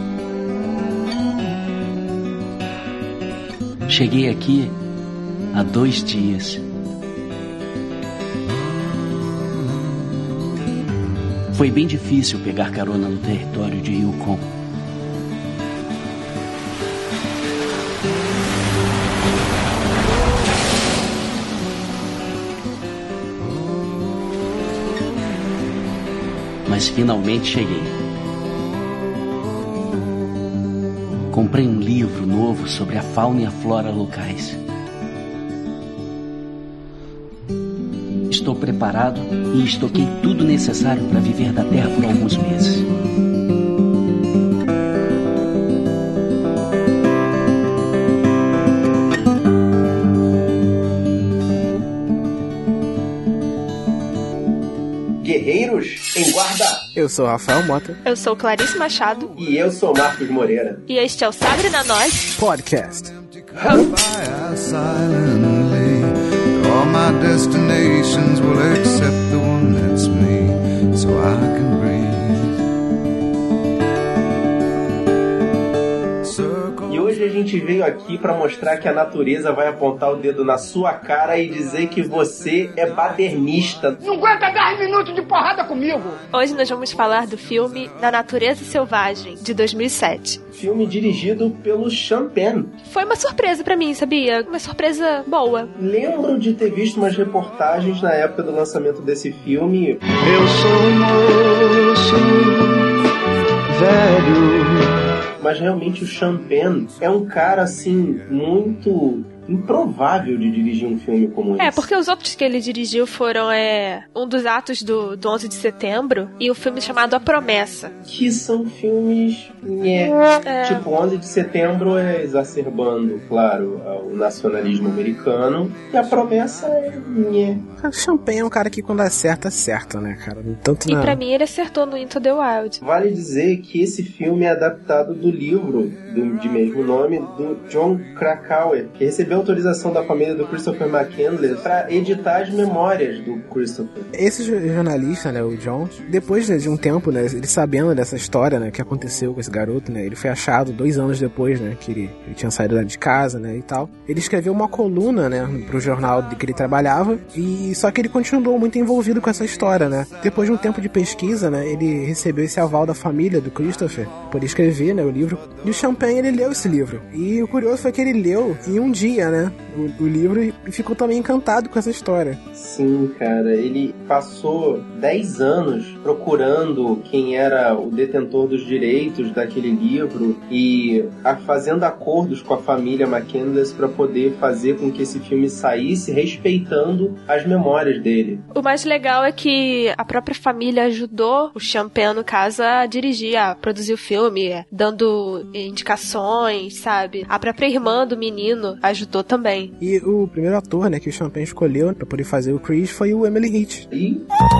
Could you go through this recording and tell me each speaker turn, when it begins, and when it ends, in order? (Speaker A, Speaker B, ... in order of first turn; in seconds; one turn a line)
Speaker A: 3.9-4.7
Speaker A: 5.5-6.6
Speaker A: 11.5-14.4
Speaker A: 26.6-27.9
Speaker A: 31.3-34.6
Speaker A: 38.3-42.9
Speaker B: 55.2-56.8
Speaker C: 56.9-58.0
Speaker D: 58.0-59.3
Speaker B: 59.4-60.8
Speaker D: 60.9-62.3
Speaker C: 62.4-63.1
Speaker E: 63.1-72.5
Speaker E: 76.2-77.2
Speaker B: 76.9-84.0
Speaker F: 84.0-86.2
Speaker D: 86.3-90.4
Speaker B: 90.5-92.7
Speaker D: 92.9-95.7
Speaker B: 95.8-100.0
Speaker E: 100.3-101.0
Speaker E: 103.7-104.3
Speaker B: 105.4-111.9
Speaker D: 111.6-117.9
Speaker B: 118.0-127.6
Speaker D: 120.4-120.8
Speaker C: 127.8-131.2
Speaker D: 130.8-132.8
Speaker B: 132.8-144.1
Speaker C: 144.1-172.4
Speaker B: 172.5-188.4
Speaker D: 188.5-199.7
Speaker C: 199.8-203.8
Speaker B: 203.9-204.2